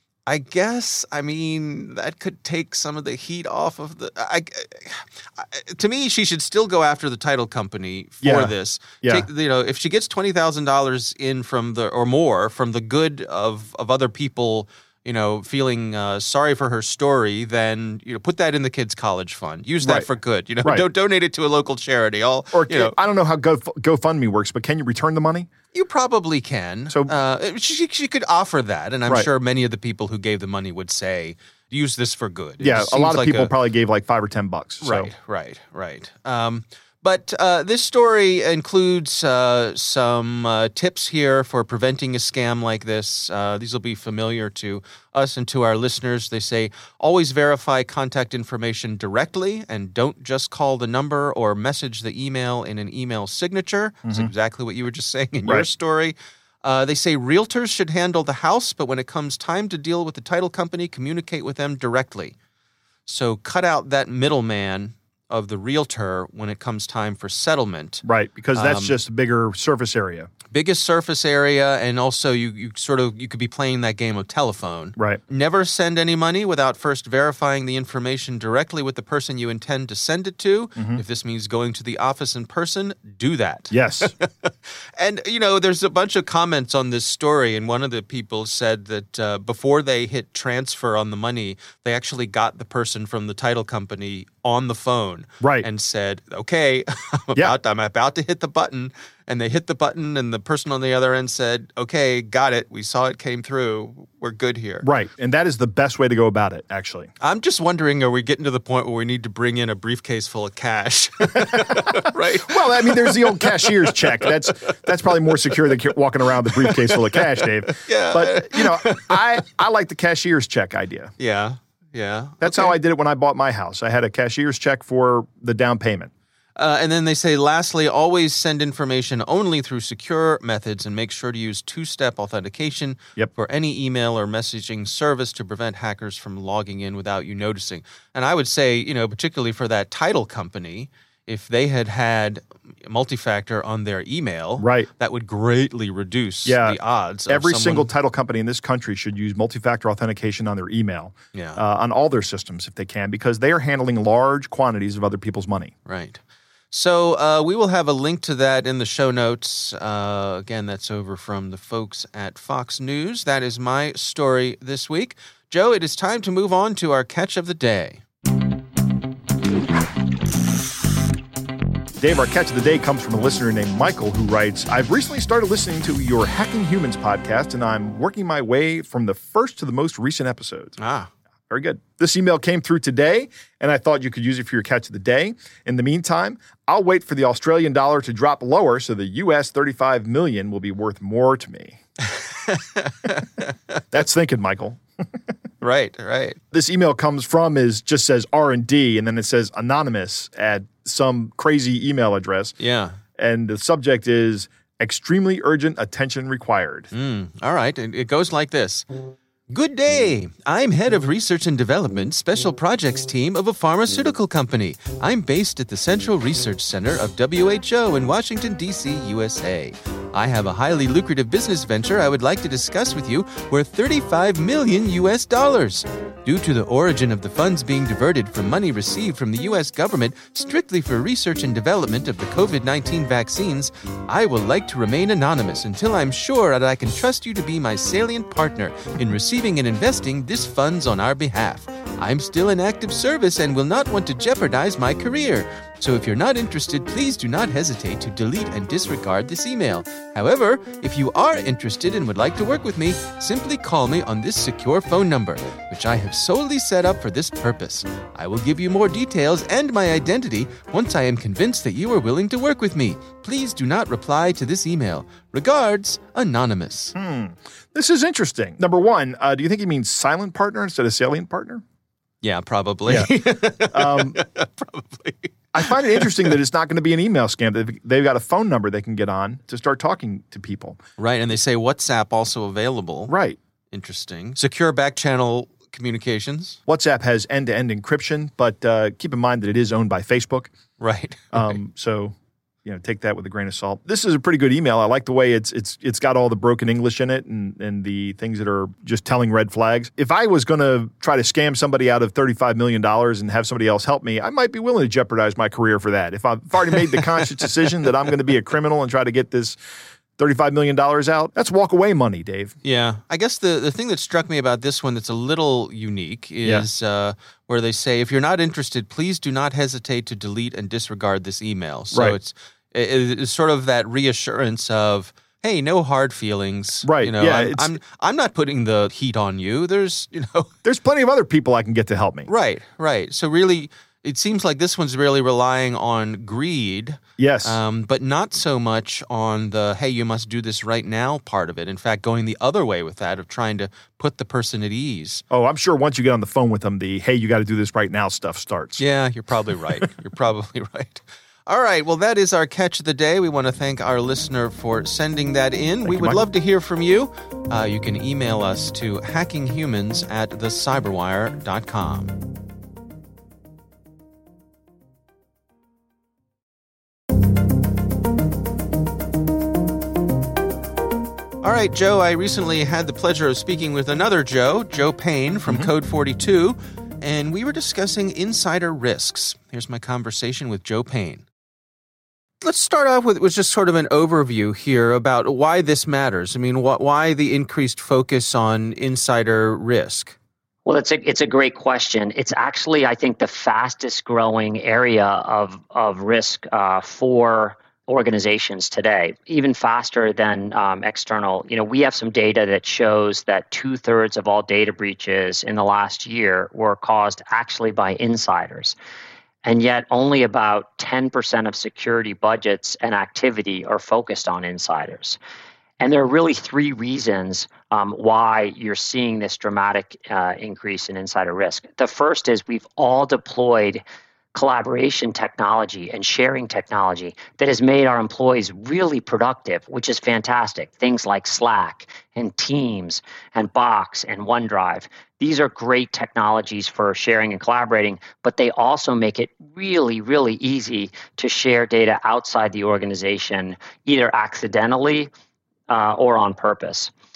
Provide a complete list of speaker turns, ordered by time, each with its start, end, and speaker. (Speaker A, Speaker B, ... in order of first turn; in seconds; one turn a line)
Speaker A: 0.3-22.9
Speaker B: 8.2-9.3
Speaker B: 19.8-20.1
Speaker B: 22.5-25.5
Speaker A: 25.7-33.5
Speaker B: 32.6-35.1
Speaker A: 34.8-62.4
Speaker B: 54.1-54.3
Speaker A: 63.1-69.0
Speaker B: 68.0-70.3
Speaker A: 70.5-104.9
Speaker B: 80.8-81.0
Speaker B: 83.7-84.1
Speaker B: 95.4-95.7
Speaker B: 104.8-107.1
Speaker A: 107.2-114.5
Speaker B: 111.4-121.1
Speaker A: 116.5-119.2
Speaker A: 121.2-122.8
Speaker B: 122.4-126.1
Speaker A: 126.6-147.9
Speaker B: 144.6-144.9
Speaker B: 146.5-155.7
Speaker A: 151.3-151.6
Speaker A: 155.9-168.0
Speaker B: 172.0-180.8
Speaker A: 180.8-181.1
Speaker B: 181.5-191.8
Speaker A: 192.1-193.8
Speaker B: 193.9-194.8
Speaker A: 195.6-196.4
Speaker B: 196.5-202.6
Speaker A: 202.6-203.0
Speaker B: 203.2-206.9
Speaker A: 206.9-208.9
Speaker A: 209.5-266.9
Speaker B: 266.9-271.6
Speaker A: 272.2-276.3
Speaker B: 272.9-273.1
Speaker B: 273.7-274.2
Speaker B: 275.5-280.8
Speaker A: 281.0-283.1
Speaker B: 283.1-283.4
Speaker A: 283.7-286.6
Speaker B: 286.7-290.5
Speaker A: 290.8-291.6
Speaker B: 291.3-309.6
Speaker B: 310.2-312.6
Speaker A: 312.6-330.5
Speaker B: 326.8-327.8
Speaker B: 330.6-332.3
Speaker A: 332.3-345.2
Speaker B: 337.2-337.6
Speaker B: 345.3-348.8
Speaker A: 348.8-362.2
Speaker B: 355.8-356.2
Speaker A: 371.4-381.2
Speaker A: 382.4-390.2
Speaker C: 390.7-408.8
Speaker C: 409.4-415.2
Speaker C: 415.8-423.8
Speaker C: 424.3-445.1
Speaker C: 445.7-446.9